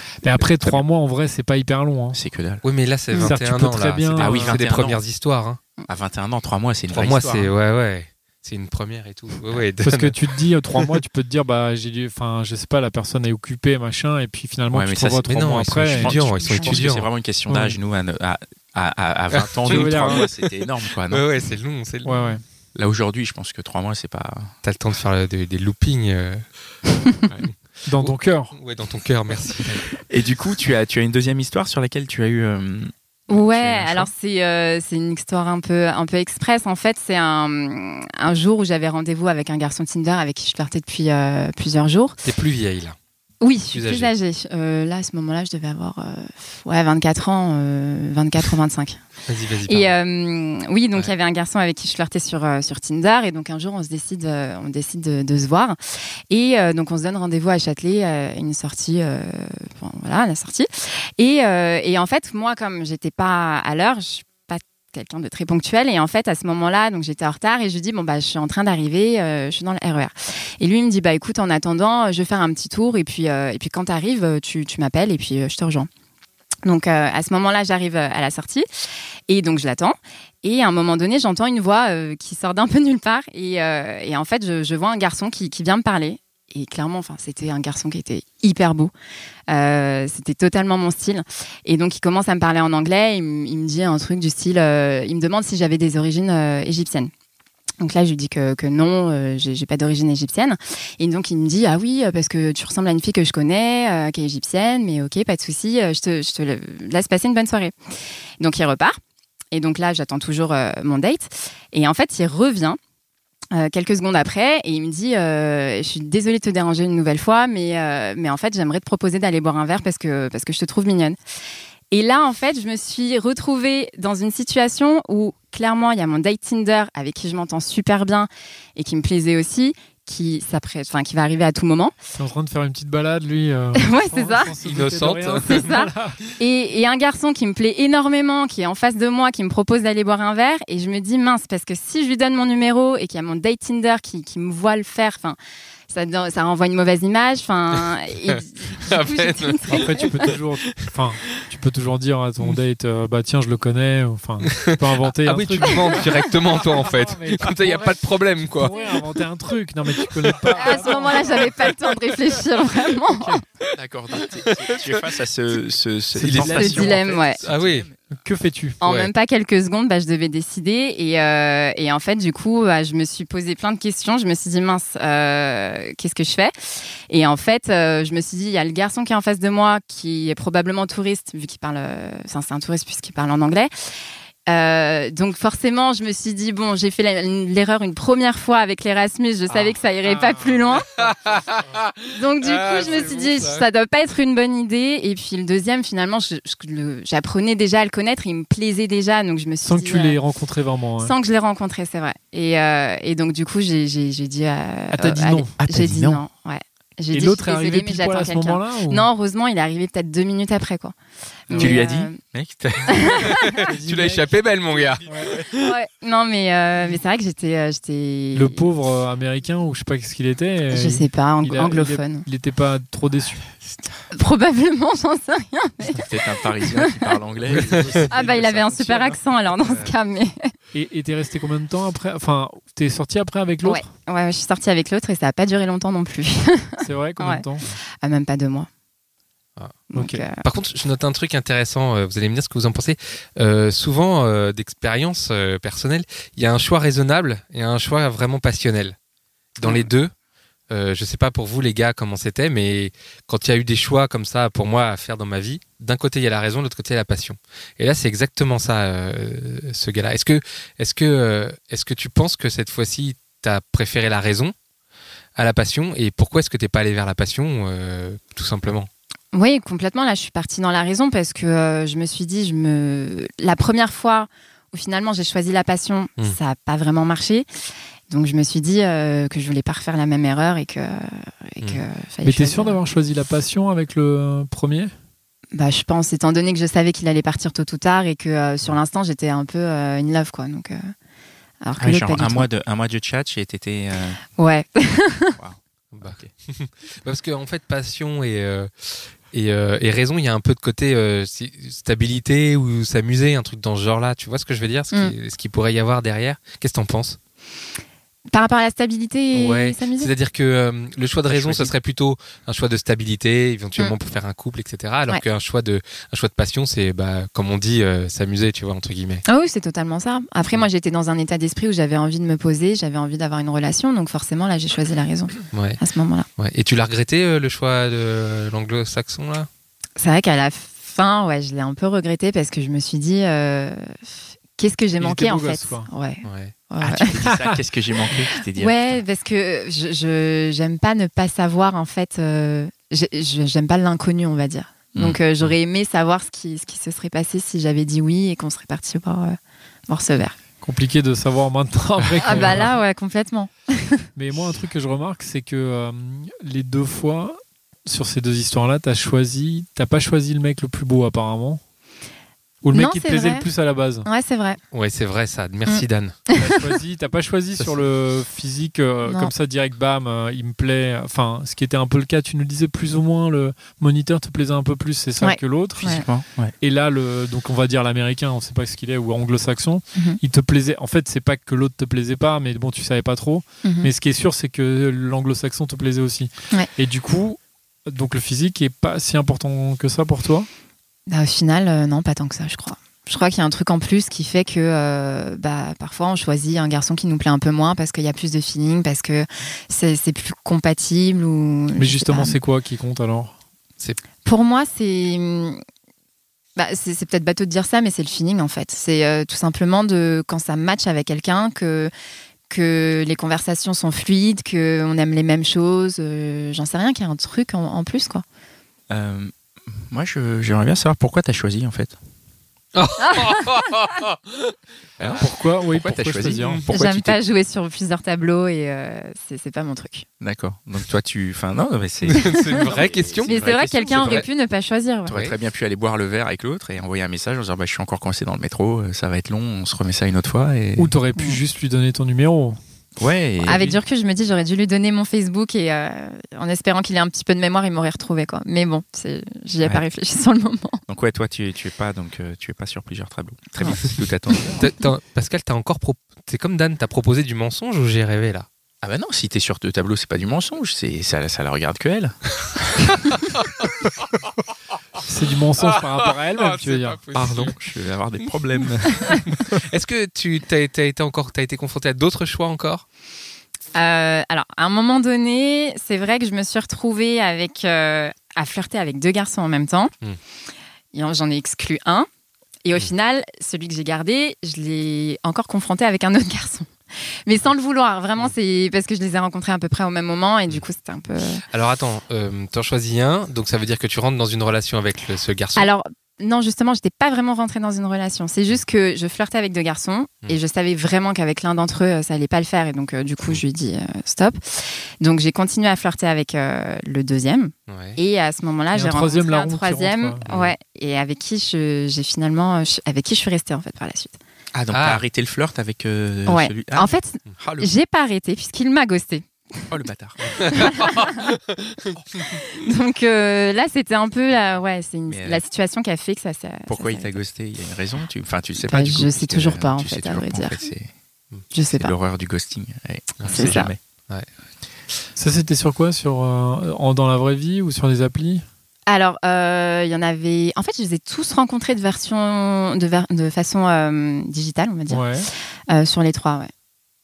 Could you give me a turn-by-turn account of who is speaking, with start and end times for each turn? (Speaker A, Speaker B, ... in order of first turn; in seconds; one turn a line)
Speaker A: 0.2-2.2
Speaker B: 0.3-0.8
Speaker B: 2.1-2.6
Speaker C: 2.6-5.6
Speaker A: 3.2-4.6
Speaker B: 4.2-5.0
Speaker B: 5.9-7.5
Speaker C: 6.9-10.2
Speaker A: 9.8-16.2
Speaker B: 14.7-15.3
Speaker C: 15.2-17.1
Speaker B: 15.9-21.2
Speaker A: 17.5-17.8
Speaker C: 19.3-20.4
Speaker A: 19.6-20.3
Speaker C: 21.0-22.3
Speaker A: 22.1-22.4
Speaker B: 22.8-24.5
Speaker C: 24.6-26.5
Speaker C: 27.4-29.9
Speaker A: 27.9-28.6
Speaker B: 30.0-32.9
Speaker D: 33.3-42.2
Speaker C: 33.5-34.1
Speaker C: 42.2-43.0
Speaker D: 43.4-49.0
Speaker C: 43.7-44.1
Speaker C: 49.3-50.0
Speaker D: 49.7-55.8
Speaker D: 56.3-75.9
Speaker D: 76.7-78.7
Speaker D: 79.3-88.9
Speaker D: 89.5-97.1
Speaker D: 97.8-107.7
Speaker D: 108.4-109.0
Speaker D: 109.5-112.8
Speaker D: 113.5-121.2
Speaker D: 121.9-131.9
Speaker A: 132.2-136.2
Speaker D: 133.8-134.6
Speaker C: 134.6-135.7
Speaker D: 135.5-145.4
Speaker D: 145.9-150.3
Speaker C: 148.3-151.3
Speaker A: 149.7-161.6
Speaker C: 154.4-158.8
Speaker D: 155.7-156.0
Speaker C: 160.2-160.8
Speaker D: 160.5-163.4
Speaker B: 163.7-168.0
Speaker C: 164.2-165.1
Speaker A: 166.2-167.1
Speaker C: 166.2-167.9
Speaker D: 166.5-167.4
Speaker A: 168.1-168.8
Speaker C: 168.8-169.1
Speaker D: 168.8-183.7
Speaker D: 184.5-191.0
Speaker A: 190.0-190.8
Speaker C: 190.9-193.7
Speaker D: 192.1-200.2
Speaker A: 199.6-201.2
Speaker D: 201.0-210.9
Speaker A: 204.9-205.6
Speaker B: 205.6-206.2
Speaker A: 207.1-209.1
Speaker D: 211.5-212.2
Speaker A: 211.5-211.8
Speaker B: 211.5-213.3
Speaker D: 212.9-213.6
Speaker C: 213.2-215.7
Speaker A: 213.6-214.4
Speaker A: 215.0-215.4
Speaker D: 215.5-218.7
Speaker A: 218.3-223.5
Speaker D: 220.7-222.3
Speaker D: 224.1-227.2
Speaker B: 225.9-229.2
Speaker A: 227.5-228.0
Speaker C: 227.5-228.1
Speaker D: 228.1-230.5
Speaker A: 230.7-233.9
Speaker D: 233.6-237.4
Speaker A: 236.8-237.7
Speaker D: 238.0-238.7
Speaker C: 239.6-239.8
Speaker D: 239.9-240.4
Speaker A: 239.9-240.2
Speaker C: 240.4-249.0
Speaker C: 249.6-250.1
Speaker D: 249.6-249.9
Speaker C: 250.7-264.5
Speaker C: 265.4-268.9
Speaker D: 269.3-277.5
Speaker D: 278.1-282.8
Speaker A: 282.2-284.9
Speaker D: 285.5-290.9
Speaker D: 291.6-292.5
Speaker B: 291.8-294.2
Speaker D: 294.4-295.4
Speaker B: 295.4-296.3
Speaker C: 295.9-307.2
Speaker D: 308.3-310.1
Speaker C: 309.3-319.2
Speaker B: 311.3-311.7
Speaker D: 319.3-326.3
Speaker C: 325.5-325.8
Speaker C: 326.4-329.5
Speaker D: 330.0-334.0
Speaker D: 334.6-337.2
Speaker A: 335.0-335.9
Speaker C: 336.2-336.5
Speaker B: 336.8-339.0
Speaker A: 337.3-337.6
Speaker D: 338.5-349.4
Speaker D: 349.9-350.4
Speaker A: 350.6-352.8
Speaker D: 352.2-354.0
Speaker C: 352.2-352.6
Speaker A: 354.1-361.6
Speaker A: 362.6-364.1
Speaker D: 362.7-363.5
Speaker D: 364.1-364.6
Speaker C: 364.7-366.2
Speaker D: 365.7-366.6
Speaker A: 366.4-376.0
Speaker D: 369.1-369.3
Speaker D: 375.2-376.1
Speaker B: 375.8-376.5
Speaker A: 376.6-390.5
Speaker D: 383.6-383.9
Speaker D: 391.1-402.4
Speaker A: 401.8-403.3
Speaker D: 404.2-405.6
Speaker D: 406.6-411.9
Speaker D: 412.5-418.2
Speaker B: 418.9-422.0
Speaker C: 422.8-424.5
Speaker B: 425.0-427.2
Speaker A: 425.2-426.6
Speaker D: 426.7-430.1
Speaker B: 430.2-434.3
Speaker C: 432.1-433.4
Speaker D: 433.3-435.2
Speaker C: 434.0-434.2
Speaker B: 435.1-440.9
Speaker A: 440.8-442.6
Speaker B: 443.0-443.7
Speaker D: 443.4-450.8
Speaker A: 443.5-443.8
Speaker B: 450.9-454.7
Speaker C: 454.6-458.5
Speaker B: 458.8-462.9
Speaker C: 463.2-463.7
Speaker A: 465.1-467.0
Speaker C: 465.6-467.6
Speaker B: 467.1-469.6
Speaker C: 469.3-472.8
Speaker D: 473.8-479.9
Speaker D: 480.9-482.1
Speaker D: 482.6-486.7
Speaker D: 487.3-491.4
Speaker C: 491.5-495.7
Speaker D: 495.6-514.2
Speaker C: 507.7-508.0
Speaker A: 508.7-510.2
Speaker C: 510.3-510.5
Speaker B: 514.5-516.9
Speaker C: 514.7-515.0
Speaker D: 516.3-519.7
Speaker C: 517.3-517.7
Speaker B: 519.7-520.7
Speaker C: 520.4-522.0
Speaker D: 520.4-521.2
Speaker D: 522.4-527.2
Speaker B: 525.1-525.4
Speaker B: 526.7-530.9
Speaker D: 528.6-530.6
Speaker D: 531.5-531.9
Speaker B: 531.7-533.8
Speaker C: 533.2-533.6
Speaker D: 533.3-533.7
Speaker A: 535.2-538.4
Speaker D: 538.9-545.1
Speaker A: 544.9-545.3
Speaker D: 545.7-546.5